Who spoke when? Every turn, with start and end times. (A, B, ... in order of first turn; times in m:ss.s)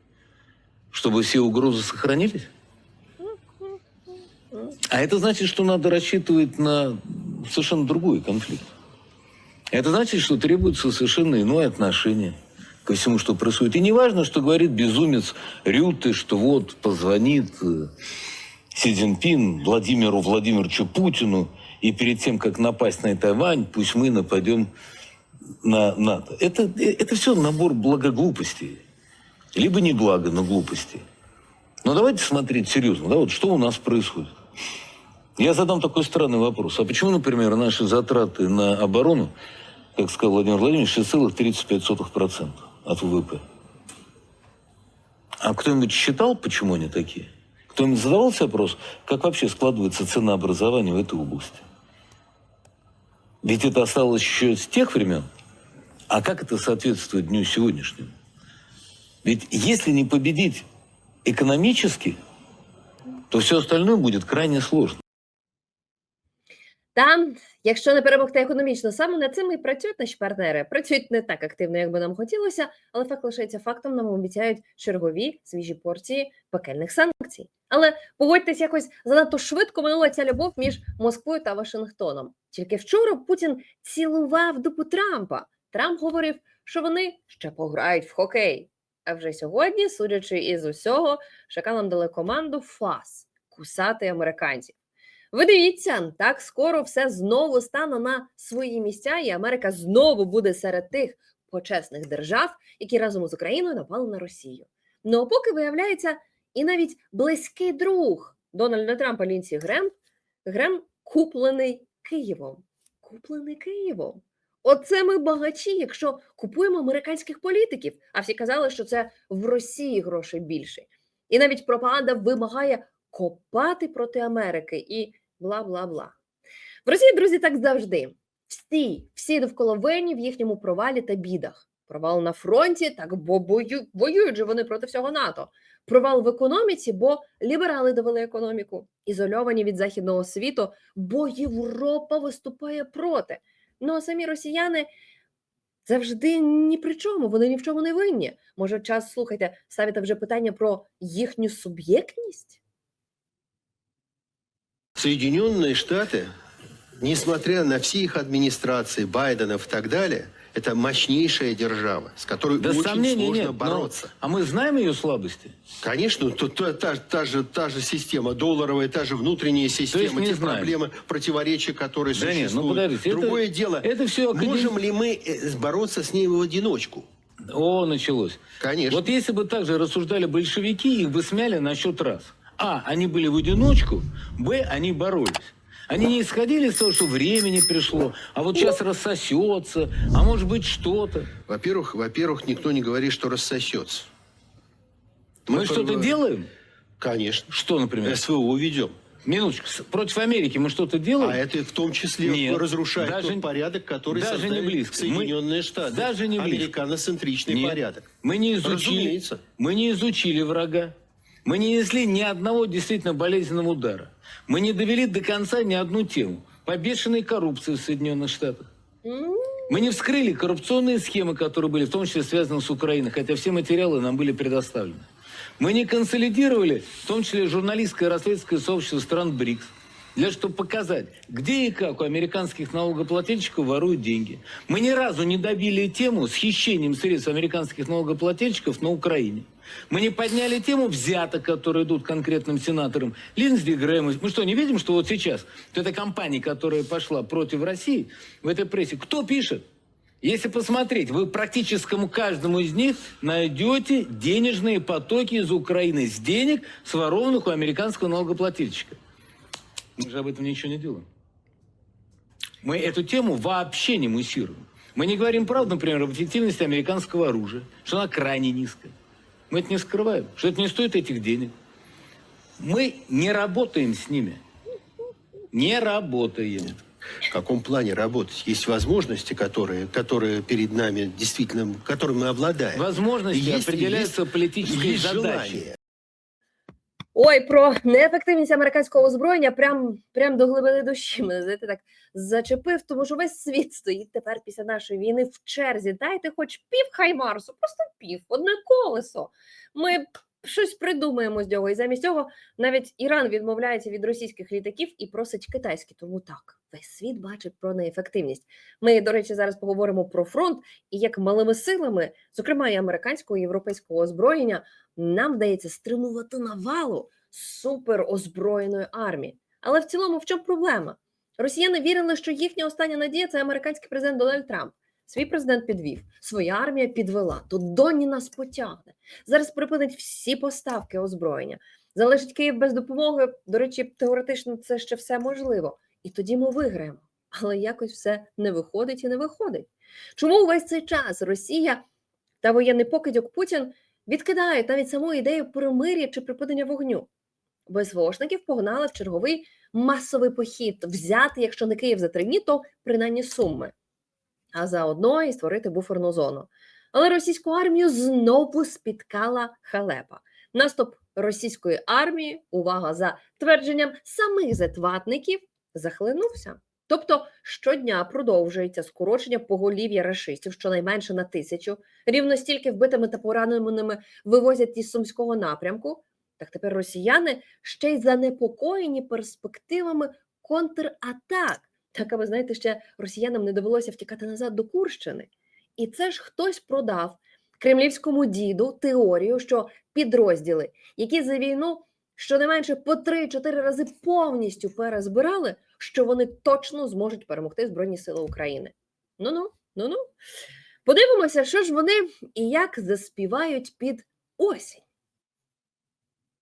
0:00.9-0:02.5 A
0:03.2-0:03.8 B
0:04.9-0:08.7 A
0:09.7-0:17.9 A
0:18.7-0:24.7 A
0:25.6-0:28.8 A
0:29.5-0:31.0 A
0:31.8-0:34.3 A
0:35.4-0:39.3 A
0:40.0-0:43.4 A
0:45.4-0:51.6 A
0:53.4-0:55.3 A
0:56.1-0:58.1 A
0:59.2-1:00.6 A
1:01.2-1:02.2 A
1:03.3-1:05.0 A
1:06.9-1:34.8 B
1:35.3-1:49.9 B
1:50.4-2:06.1 B
2:06.9-2:24.9 B
2:25.9-2:32.6 B
2:35.0-2:36.3 C
2:37.0-2:44.1 C
2:42.6-2:45.5 A
2:45.8-2:57.0 C
2:49.9-2:50.7 A
2:52.1-2:54.7 A
2:57.5-3:11.3 A
2:58.6-2:59.1 C
3:11.5-3:14.1 C
3:15.5-3:16.2 C
3:15.5-3:16.5 A
3:17.0-3:17.5 C
3:17.5-3:18.2 A
3:18.0-3:18.9 C
3:19.2-3:21.4 A
3:21.2-3:28.0 C
3:22.2-3:23.4 A
3:24.1-3:25.3 A
3:25.9-3:26.7 A
3:27.5-3:30.9 A
3:28.6-3:29.4 C
3:31.4-3:38.7 A
3:39.0-3:39.7 B
3:39.7-3:45.0 A
3:45.6-4:09.6 A
4:10.2-4:19.0 A
4:20.0-4:21.1 A
4:22.6-4:28.9 A
4:29.5-4:31.5 A
4:32.6-4:34.4 A
4:35.5-4:36.8 A
4:37.3-4:45.8 C
4:42.7-4:45.7 A
4:47.1-5:41.8 B
5:42.4-5:47.1 B
5:47.7-5:53.7 B
5:54.5-6:40.1 B
6:40.9-6:44.8 B